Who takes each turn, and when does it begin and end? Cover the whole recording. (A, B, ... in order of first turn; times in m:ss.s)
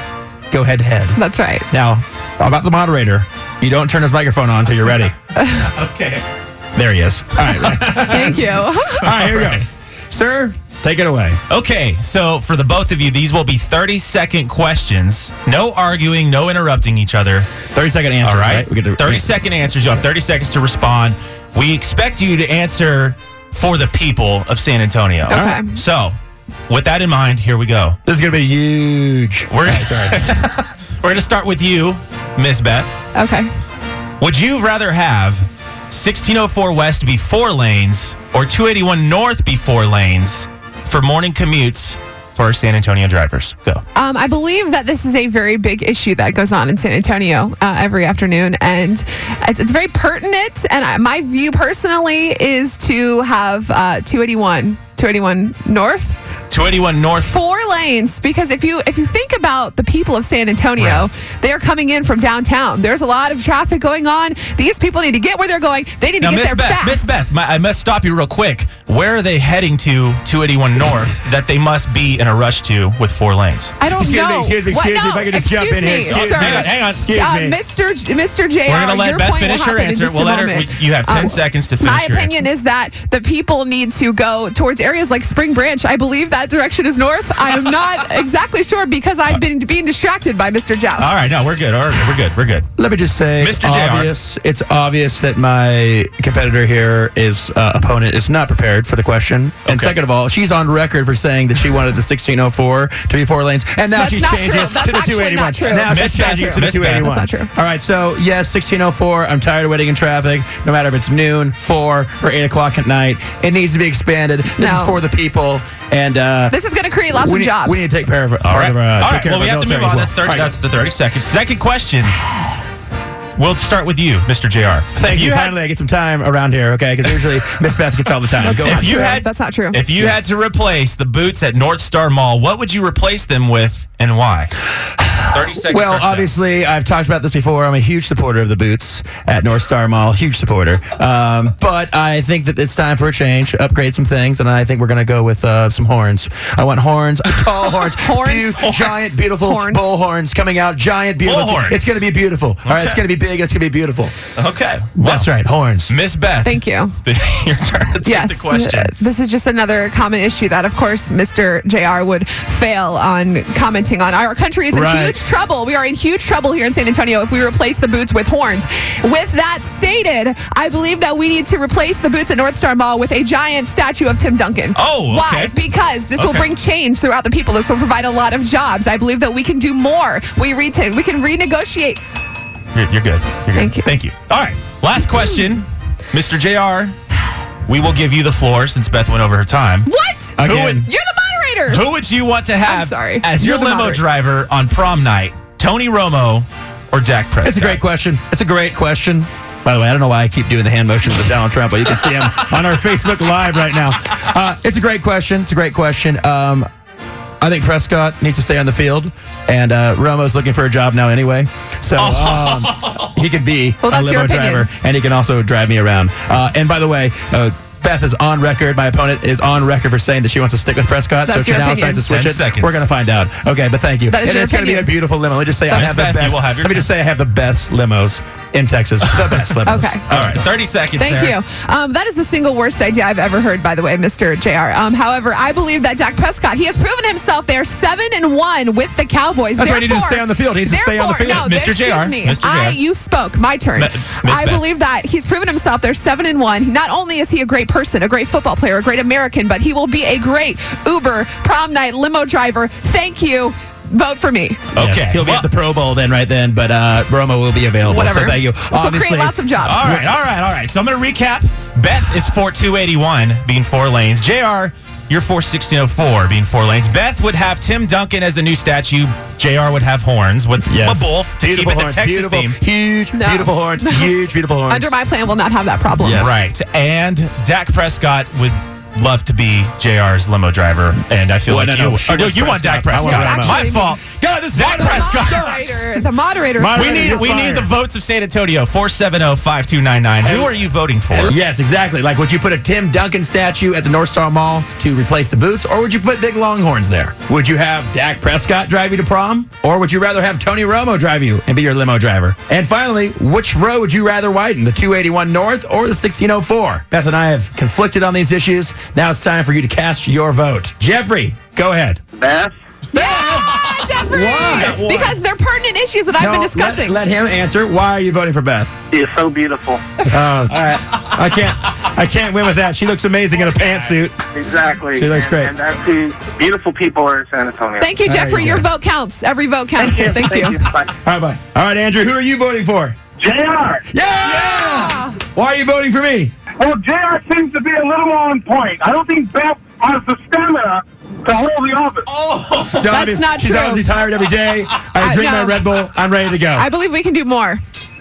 0:00.5-0:01.2 A
0:01.2-0:01.6 B
0:01.7-0:05.1 A
0:05.6-0:06.2 C
0:06.7-0:11.4 A
0:07.9-0:09.1 B
0:09.1-0:09.6 C
0:11.5-0:17.5 C
0:17.7-0:19.3 A
0:18.2-0:26.2 C
0:25.3-0:25.7 B
0:25.3-0:25.6 A
0:26.7-0:28.0 C
0:28.0-0:30.2 A
0:29.5-0:32.9 C
0:33.1-0:33.5 B
0:34.2-0:43.8 C
0:43.9-0:56.2 B
0:56.5-0:57.3 C
0:57.2-1:07.1 B
1:00.8-1:01.0 C
1:06.2-1:13.8 C
1:13.8-1:31.1 B
1:13.9-1:17.6 A
1:16.1-1:17.1 C
1:18.6-1:22.4 C
1:31.0-1:32.7 C
1:32.8-1:56.6 A
1:33.4-1:34.1 C
1:39.6-1:40.0 C
1:43.9-1:47.5 B
1:45.8-1:47.1 C
1:54.6-1:55.0 B
1:56.5-1:57.9 B
1:57.1-2:00.6 A
1:58.4-2:02.2 C
2:03.4-2:05.6 C
2:05.0-2:09.2 A
2:08.4-2:09.8 B
2:08.4-2:14.5 C
2:10.0-2:10.3 A
2:15.0-2:34.1 A
2:15.3-2:16.3 C
2:27.8-2:29.9 B
2:28.6-2:28.9 C
2:31.2-2:32.0 C
2:32.6-2:33.0 C
2:34.4-2:35.3 C
2:35.0-2:35.9 A
2:35.9-2:38.9 C
2:36.4-2:37.0 B
2:38.0-3:02.0 B
2:44.7-2:45.2 A
2:54.7-2:55.5 C
2:56.2-2:56.5 C
3:02.7-3:07.0 C
3:03.5-3:03.9 B
3:07.7-3:09.9 C
3:09.8-3:11.9 B
3:10.4-3:10.9 A
3:10.4-3:10.9 C
3:11.7-3:17.8 C
3:12.6-3:14.0 B
3:17.4-3:26.7 A
3:22.0-3:22.5 C
3:27.4-3:50.4 A
3:32.0-3:33.2 C
3:33.8-3:34.7 B
3:41.2-3:42.1 B
3:42.0-3:42.9 C
3:44.1-3:45.0 B
3:45.7-3:46.0 B
3:45.7-3:46.9 C
3:49.6-3:50.0 B
3:50.1-3:51.4 C
3:51.0-4:14.6 B
3:59.6-4:01.5 A
4:01.2-4:02.8 C
4:03.8-4:04.6 C
4:14.7-4:20.1 A
4:14.7-4:15.5 C
4:17.8-4:19.9 B
4:19.6-4:32.6 C
4:30.6-4:34.9 A
4:33.1-4:34.1 B
4:34.7-4:36.3 B
4:36.0-4:36.4 A
4:36.1-4:45.8 C
4:41.5-4:46.0 A
4:42.9-4:44.0 B
4:44.6-4:47.5 B
4:46.6-4:47.7 A
4:46.7-4:51.3 C
4:50.2-4:50.5 A
4:51.1-5:12.0 A
5:12.2-5:12.5 D
5:12.9-5:17.0 B
5:12.9-5:15.0 A
5:13.2-5:13.9 C
5:14.5-5:15.1 C
5:16.2-5:18.8 A
5:18.9-5:19.8 D
5:20.1-5:24.2 A
5:24.3-5:27.9 D
5:24.9-5:25.5 A
5:27.8-5:30.6 B
5:28.0-5:28.7 A
5:29.8-5:30.9 D
5:30.9-5:33.0 A
5:33.2-5:33.8 D
5:33.9-5:36.3 A
5:34.2-5:35.2 B
5:36.6-5:42.0 E
5:40.3-5:40.7 D
5:41.2-5:42.0 D
5:42.0-5:43.1 C
5:42.8-5:46.6 A
5:42.8-5:43.9 B
5:45.0-5:45.7 B
5:46.5-5:47.6 B